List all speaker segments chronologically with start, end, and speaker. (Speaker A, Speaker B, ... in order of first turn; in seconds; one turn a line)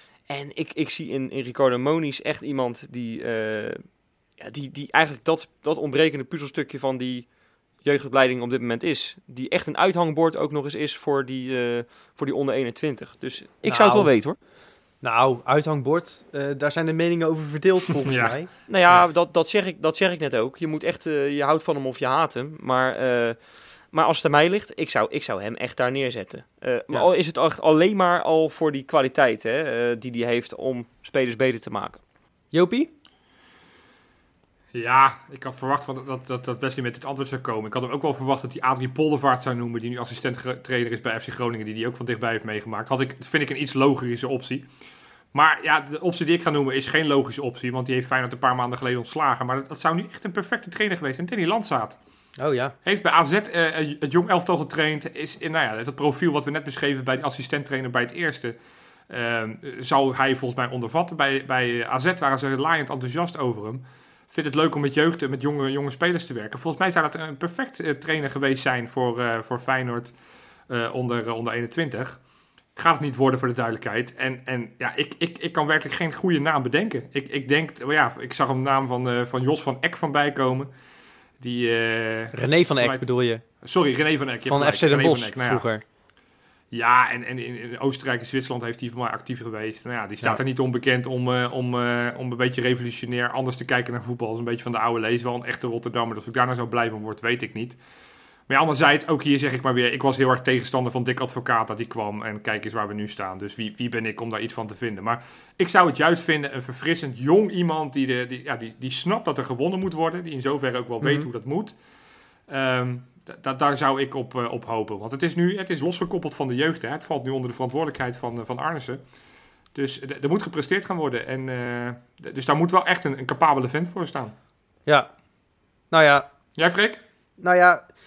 Speaker A: 0.3-3.8
Speaker A: 4.4-7.3
Speaker A: 7.8-14.4
Speaker B: 13.7-14.1
Speaker B: 15.0-18.5
Speaker C: 18.0-18.4
Speaker A: 18.7-23.4
Speaker A: 23.9-32.0
Speaker B: 32.5-32.9
Speaker C: 34.7-44.7
Speaker C: 45.3-52.0
Speaker B: 52.4-52.7
Speaker C: 52.9-58.6
Speaker C: 59.1-70.1
Speaker C: 70.7-72.2
Speaker C: 72.8-80.7
Speaker C: 81.4-83.0
Speaker B: 82.3-83.4
Speaker C: 83.6-85.7
Speaker B: 84.5-85.8
Speaker C: 86.7-97.8
Speaker C: 98.5-111.8
Speaker B: 111.0-111.3
Speaker C: 112.5-119.0
Speaker C: 119.8-124.3
Speaker B: 125.9-126.3
Speaker C: 126.6-127.0
Speaker B: 127.4-127.8